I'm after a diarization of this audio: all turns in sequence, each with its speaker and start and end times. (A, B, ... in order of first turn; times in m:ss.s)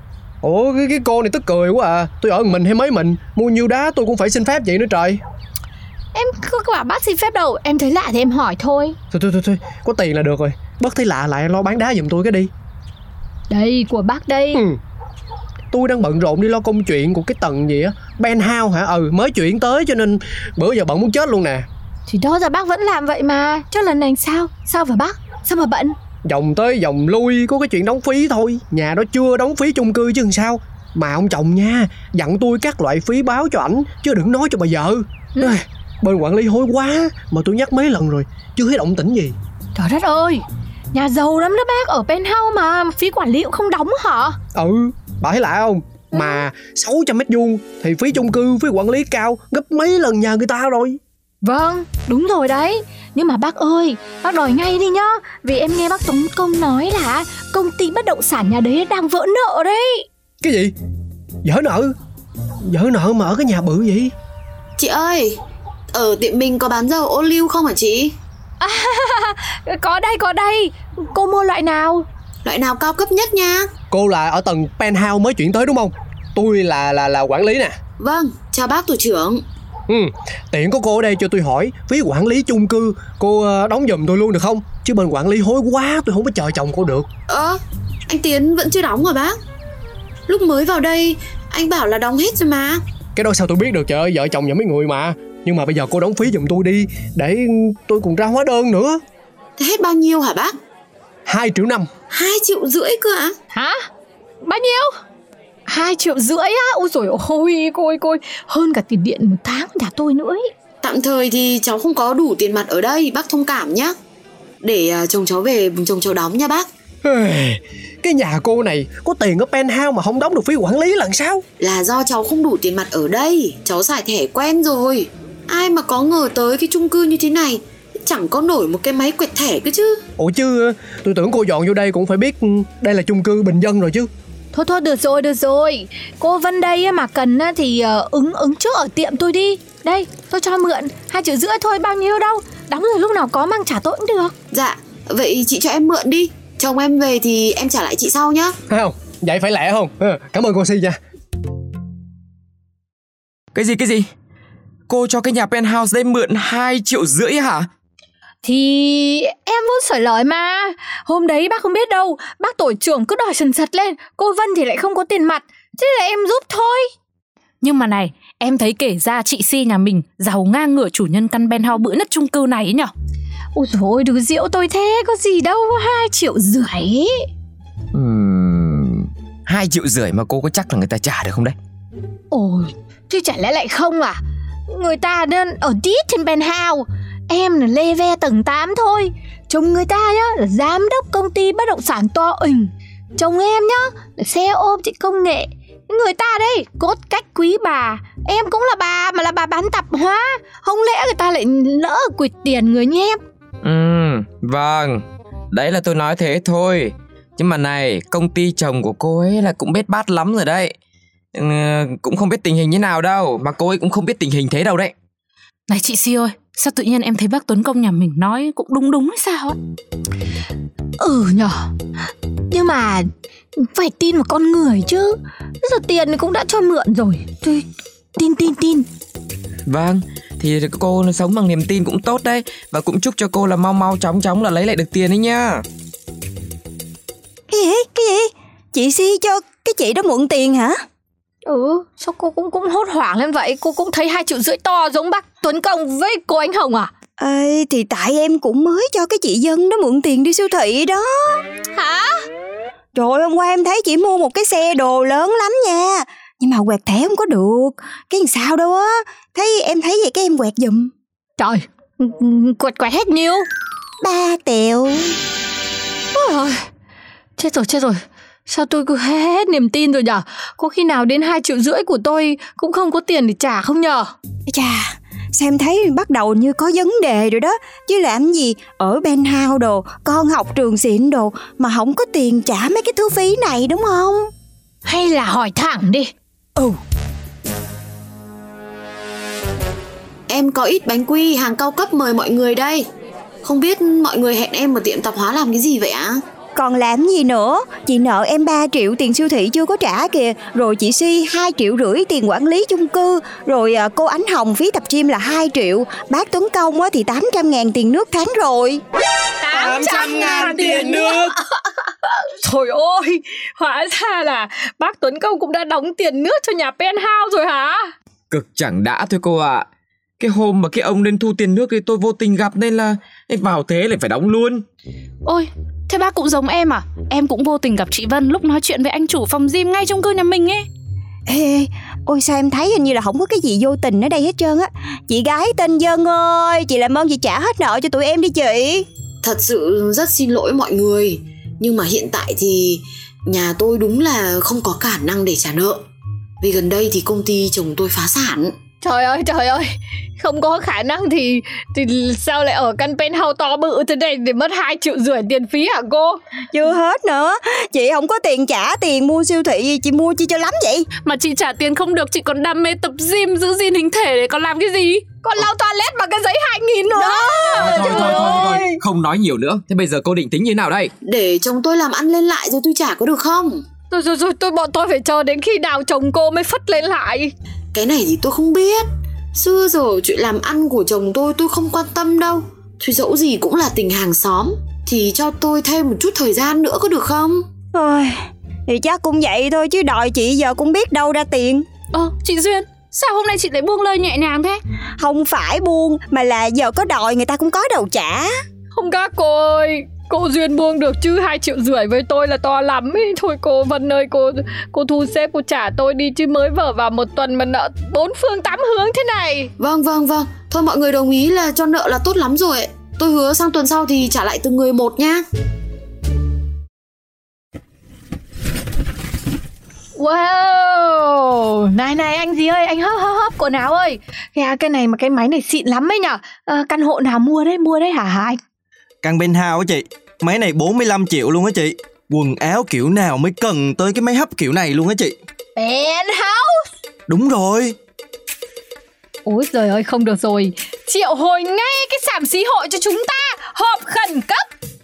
0:00.4-0:05.2 A
0:06.1-0:09.0 B
0:09.1-0:12.5 A
0:13.5-0:14.6 B
0:14.5-0:14.8 A
0:15.7-0:21.7 A
0:22.0-0:25.9 B
0:26.2-0:39.4 A
0:39.7-0:44.4 B
0:44.5-0:51.0 A
0:46.1-0:46.4 B
0:51.4-1:00.0 B
1:00.4-1:00.7 A
1:01.4-1:01.9 A
1:02.7-1:04.1 A
1:04.8-1:05.3 C
1:05.9-1:08.1 C
1:08.6-1:12.0 B
1:12.4-1:13.7 C
1:13.9-1:17.8 A
1:18.0-1:19.4 C
1:19.9-1:27.1 A
1:27.3-1:27.6 C
1:28.1-1:29.3 C
1:30.3-1:32.8 C
1:33.2-1:39.0 A
1:39.6-1:40.5 C
1:41.3-1:41.9 A
1:42.1-1:43.3 C
1:43.5-1:43.8 B
1:44.4-1:44.9 B
1:45.7-1:50.5 B
1:50.8-1:53.9 C
1:54.6-1:56.7 C
1:57.0-2:01.4 A
2:01.6-2:10.0 C
2:10.2-2:14.1 A
2:14.5-2:24.3 B
2:24.5-2:28.5 C
2:28.7-2:31.0 A
2:33.5-2:34.1 D
2:34.9-2:37.7 D
2:38.4-2:46.9 B
2:47.6-2:52.9 E
2:53.5-2:57.2 B
2:57.9-3:01.6 D
3:02.3-3:23.2 B
3:23.6-3:30.7 D
3:31.3-3:34.9 D
3:35.7-3:39.6 E
3:41.0-3:41.7 B
3:42.5-3:47.6 B
3:48.2-3:48.8 B
3:49.7-3:55.6 D
3:57.5-4:00.8 F
4:01.4-4:06.9 B
4:07.2-4:11.4 F
4:11.7-4:12.2 B
4:12.9-4:20.9 F
4:21.4-4:23.4 B
4:24.0-4:25.2 F
4:26.1-4:26.6 B
4:27.4-4:34.1 B
4:34.5-4:44.3 F
4:44.8-4:46.7 B
4:50.3-4:52.8 C
4:53.4-4:56.2 C
4:56.5-5:08.8 F
5:09.4-5:11.4 B
5:09.9-5:10.2 D
5:10.8-5:11.2 D
5:12.0-5:17.8 B
5:18.3-5:19.6 D
5:20.2-5:24.6 D
5:25.2-5:30.7 E
5:31.3-5:38.8 F
5:39.2-5:45.8 C
5:46.4-5:48.5 C
5:48.8-5:49.6 B
5:50.2-5:56.2 B
5:56.5-6:00.9 F
6:01.0-6:05.0 E
6:05.2-6:08.7 B
6:07.6-6:10.9 D
6:11.0-6:13.6 C
6:13.9-6:17.3 B
6:17.7-6:27.4 C
6:27.7-6:28.2 F
6:28.7-6:31.6 F
6:31.9-6:34.6 E
6:35.0-6:38.3 F
6:38.7-6:49.5 B
6:49.6-6:55.2 C
7:00.0-7:08.4 B
7:09.0-7:15.2 G
7:15.6-7:16.6 B
7:17.1-7:17.8 G
7:19.2-7:24.4 B